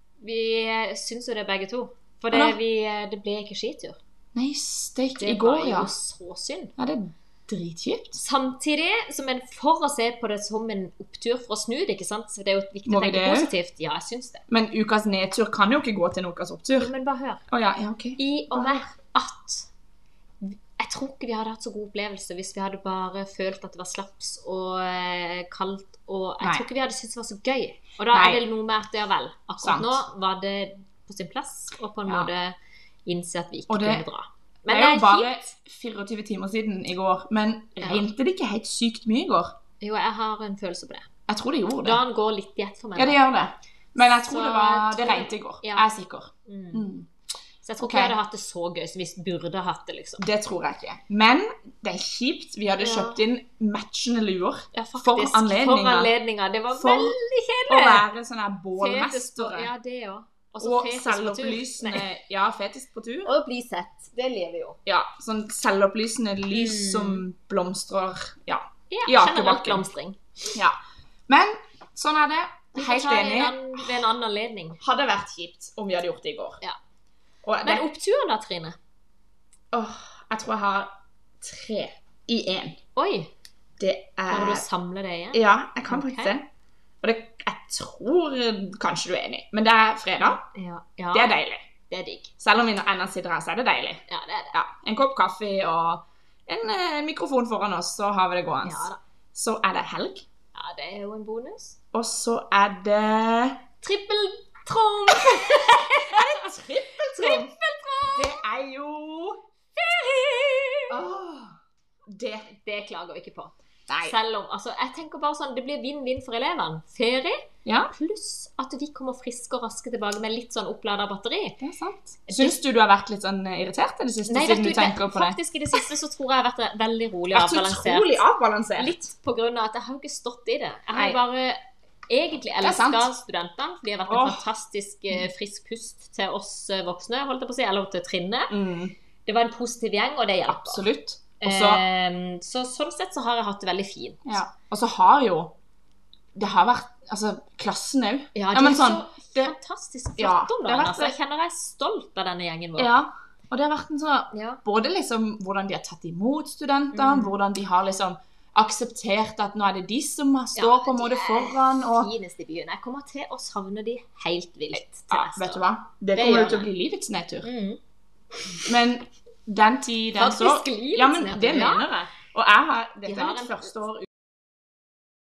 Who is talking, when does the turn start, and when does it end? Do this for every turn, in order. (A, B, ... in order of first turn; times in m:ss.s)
0:00.2-0:04.0 A
0:02.3-0:02.6 B
0:04.3-0:05.9 B
0:05.2-0:06.7 A
0:06.8-0:08.2 B
0:08.2-0:14.4 A
0:12.8-0:13.5 B
0:14.5-0:16.9 B
0:16.8-0:17.4 A
0:17.5-0:18.8 B
0:18.2-0:19.7 A
0:20.4-0:32.5 A
0:26.4-0:26.6 B
0:28.1-0:28.4 B
0:29.6-0:30.0 B
0:33.0-0:35.4 A
0:33.7-0:34.0 B
0:34.7-0:39.5 B
0:39.8-0:41.1 A
0:41.3-0:42.0 B
0:41.8-0:43.2 A
0:43.0-0:47.1 B
0:44.0-0:45.9 A
0:46.4-0:46.8 A
0:47.6-0:50.2 A
0:47.8-0:48.1 B
0:50.2-0:56.1 B
0:52.8-0:53.2 A
0:54.7-0:58.0 A
0:56.7-0:57.2 B
0:57.7-0:59.7 B
0:58.8-1:02.0 A
1:00.6-1:03.3 B
1:03.2-1:04.8 A
1:04.8-1:09.8 B
1:06.5-1:07.2 A
1:08.9-1:10.2 A
1:11.3-1:13.8 B
1:12.7-1:14.8 A
1:14.8-1:16.6 B
1:17.4-1:17.8 B
1:17.6-1:18.8 A
1:19.7-1:22.8 B
1:23.0-1:23.3 A
1:23.8-1:24.6 B
1:24.3-1:26.3 A
1:25.3-1:26.5 B
1:27.0-1:30.4 B
1:30.2-1:31.3 A
1:31.1-1:31.6 B
1:31.9-1:32.3 A
1:32.4-1:40.2 B
1:34.1-1:34.6 A
1:38.6-1:39.0 A
1:40.5-1:41.8 A
1:41.9-1:43.6 B
1:43.8-1:46.4 A
1:45.2-1:47.5 B
1:47.0-1:48.4 A
1:48.1-1:49.4 B
1:49.8-1:51.0 A
1:50.9-1:52.5 B
1:52.6-2:01.6 A
1:53.9-1:54.1 B
1:57.6-1:57.9 B
2:01.6-2:05.8 B
2:02.3-2:02.6 A
2:04.3-2:08.2 A
2:07.3-2:08.9 B
2:08.8-2:18.6 A
2:10.9-2:11.2 B
2:12.6-2:13.1 B
2:14.1-2:14.4 B
2:18.5-2:18.9 B
2:19.2-2:20.8 A
2:20.5-2:21.8 B
2:21.4-2:24.4 A
2:24.2-2:25.5 B
2:26.3-2:29.5 B
2:28.3-2:32.9 A
2:30.2-2:31.2 B
2:32.8-2:42.1 B
2:34.3-2:34.6 A
2:36.9-2:37.4 A
2:40.6-2:45.6 A
2:44.7-2:47.5 B
2:46.1-2:46.7 A
2:47.4-2:47.8 A
2:48.4-2:48.6 A
2:48.6-2:54.1 B
2:50.2-2:51.9 A
2:53.0-2:53.8 A